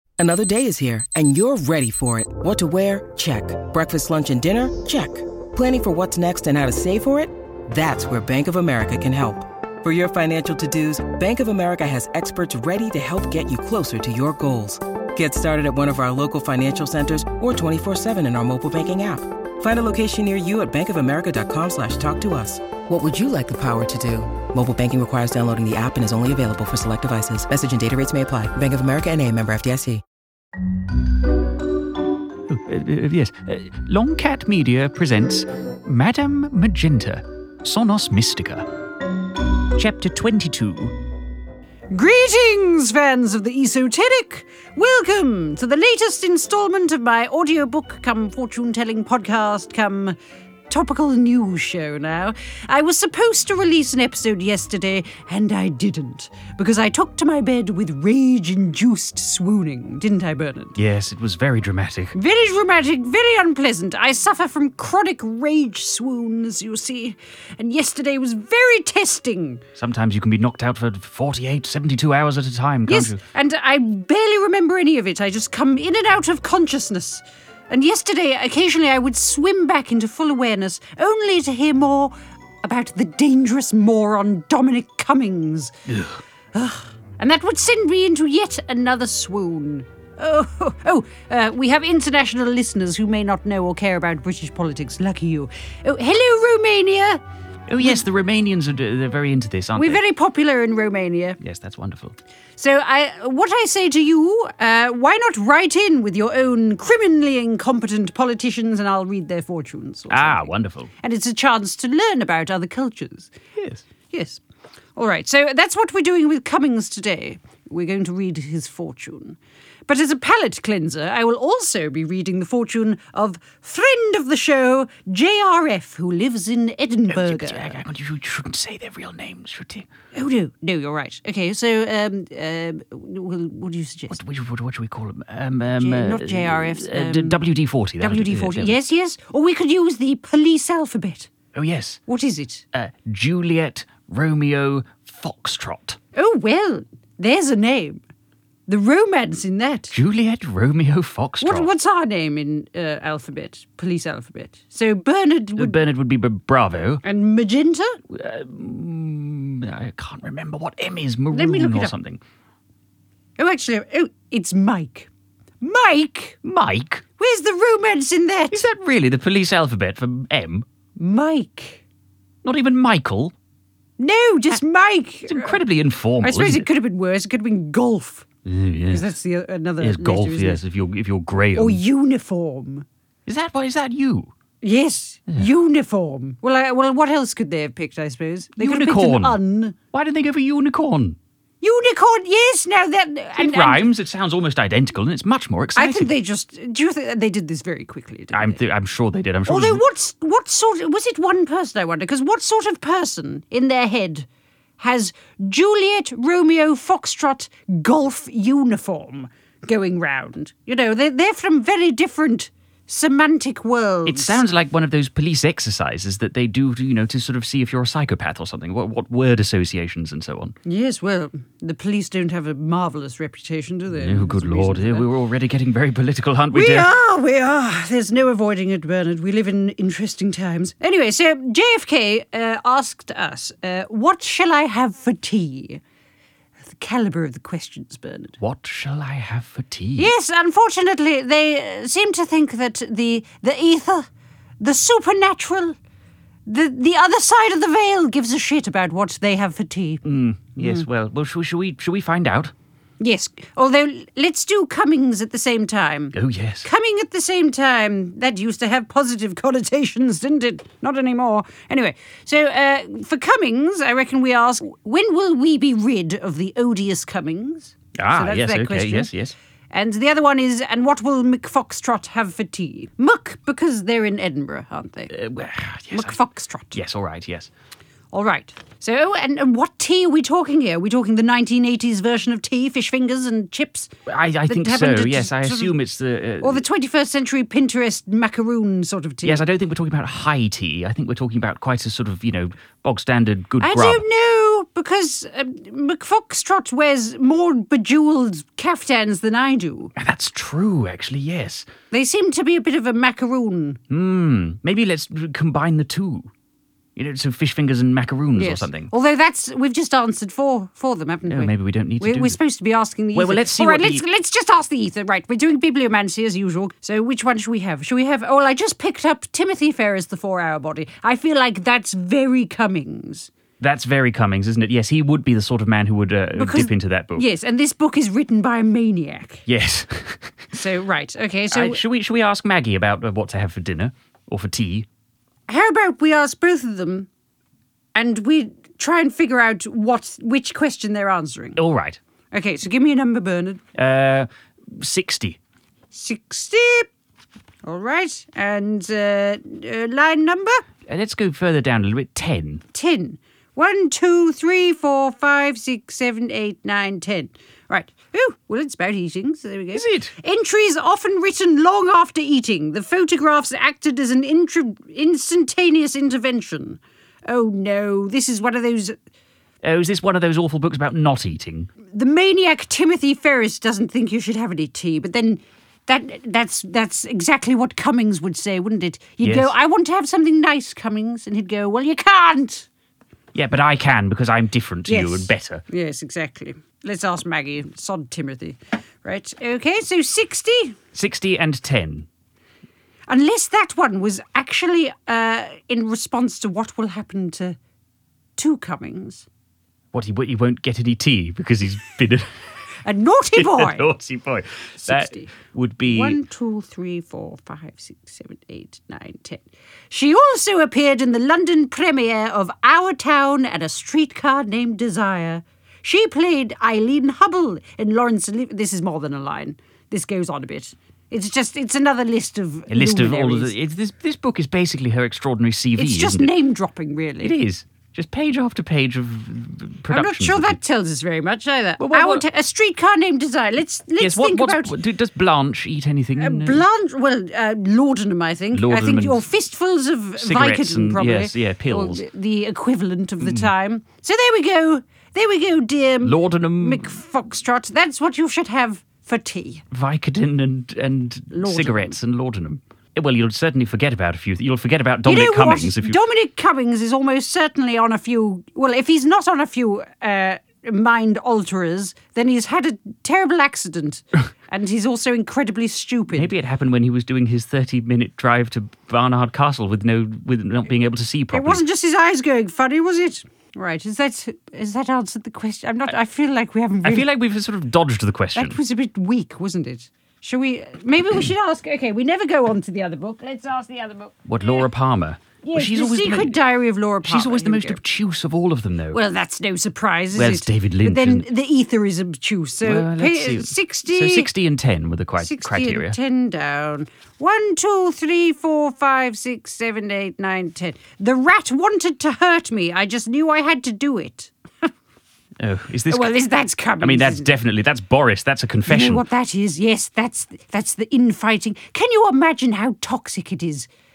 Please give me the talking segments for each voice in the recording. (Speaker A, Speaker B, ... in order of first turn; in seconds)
Speaker A: 0.2-30.0
Speaker B: 32.5-38.7, 39.7-40.9, 60.8-62.1, 69.8-73.2, 97.7-100.0, 101.4-102.2, 110.1-110.9, 113.6-113.8, 127.1-129.9, 134.1-138.8, 141.5-142.0, 142.7-146.0, 149.9-151.7, 155.6-157.0, 158.1-162.2, 166.4-167.0, 168.5-170.7, 172.4-173.3, 175.3-176.7, 178.4-179.1, 179.8-181.8, 183.2-184.3, 188.6-189.4, 189.9-191.2, 193.3-196.1, 198.3-199.8, 214.1-220.5, 223.9-226.9, 238.4-240.1, 250.0-252.5, 256.1-256.7, 267.9-269.3, 275.1-276.2, 276.7-277.5, 284.1-286.6, 289.2-294.0, 300.0-301.7, 303.9-306.3, 306.9-308.9, 311.3-312.4, 313.1-314.0, 323.6-327.2, 329.5-330.4, 331.5-334.9, 341.6-342.0, 343.8-345.4, 350.9-352.6, 359.8-360.1, 369.6-371.7, 379.2-379.5, 383.3-385.6, 390.9-392.1, 399.9-402.2, 403.4-406.2, 422.7-426.3, 427.2-430.6, 431.8-432.2, 434.0-436.6, 438.5-439.2, 440.2-442.0, 443.2-443.5, 446.0-446.9, 449.7-456.0, 466.1-471.6, 476.8-478.6, 484.3-486.4, 487.0-489.0, 490.1-491.3, 492.6-495.9, 505.4-506.2, 506.8-509.0
Speaker C: 41.9-50.2, 50.7-60.8, 62.1-69.6, 72.9-85.8, 86.5-97.2, 99.8-101.4, 102.6-110.5, 111.0-113.3, 114.1-114.4, 115.0-127.8, 130.1-134.2, 135.8-137.4, 138.0-141.3, 142.1-142.7, 146.1-148.0, 148.7-149.9, 151.4-155.8, 157.0-158.0, 161.3-161.9, 163.4-165.1, 165.6-166.4, 167.2-168.7, 171.0-171.8, 174.0-175.6, 176.2-178.2, 178.9-180.6, 181.5-182.8, 184.6-189.8, 191.6-193.9, 195.8-198.6, 199.4-204.3, 204.8-214.4, 220.7-225.1, 226.5-235.8, 236.6-238.4, 240.0-244.1, 244.6-245.8, 246.4-250.0, 250.6-250.8, 253.0-269.1, 269.7-275.1, 275.9-276.8, 278.1-283.9, 284.5-285.8, 286.4-289.4, 293.6-299.9, 301.9-303.8, 308.4-323.3, 326.3-329.4, 330.5-331.8, 335.5-337.1, 337.9-341.6, 342.3-343.6, 345.9-346.9, 347.6-350.6, 352.7-368.9, 371.9-382.7, 384.9-390.8, 393.1-397.6, 398.4-399.2, 402.8-403.9, 404.8-405.3, 405.8-423.6, 425.8-427.3, 429.9-434.8, 436.2-449.6, 451.3-451.9, 455.1-466.3, 471.3-477.1, 478.3-484.6, 485.4-487.8, 488.9-494.3, 495.2-504.7, 505.9-507.4, 508.7-513.7